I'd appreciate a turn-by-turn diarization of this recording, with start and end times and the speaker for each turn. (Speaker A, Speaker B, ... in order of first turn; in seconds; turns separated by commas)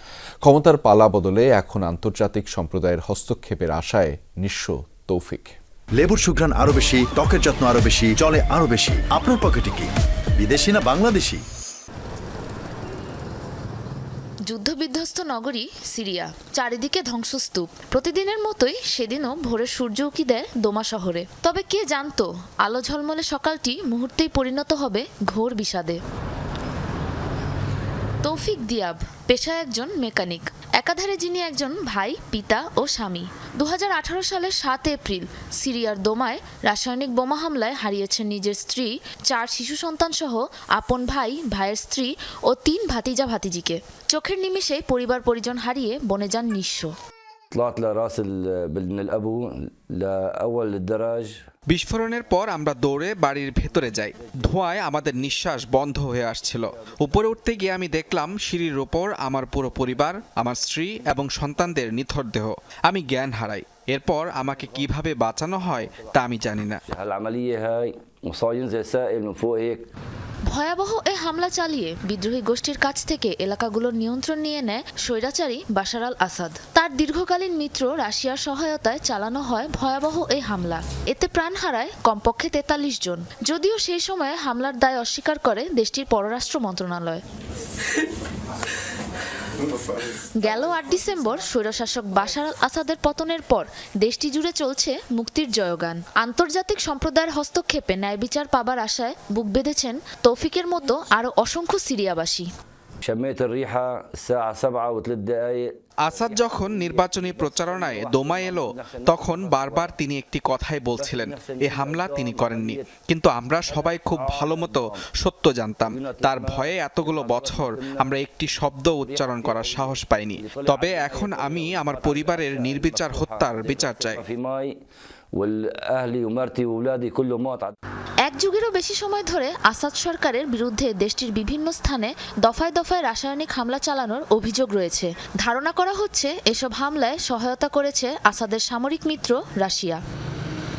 Speaker A: 0.4-5.5, Speaker B: 6.0-11.4, Speaker C: 14.4-26.0, Speaker C: 28.2-46.9, Speaker D: 47.5-51.5, Speaker E: 51.7-66.8, Speaker D: 66.9-69.8, Speaker C: 70.5-87.2, Speaker C: 90.1-102.5, Speaker D: 103.0-110.0, Speaker E: 106.0-124.2, Speaker D: 111.0-112.9, Speaker D: 113.7-115.0, Speaker D: 115.9-118.2, Speaker D: 119.0-124.7, Speaker D: 125.3-127.7, Speaker C: 128.2-140.0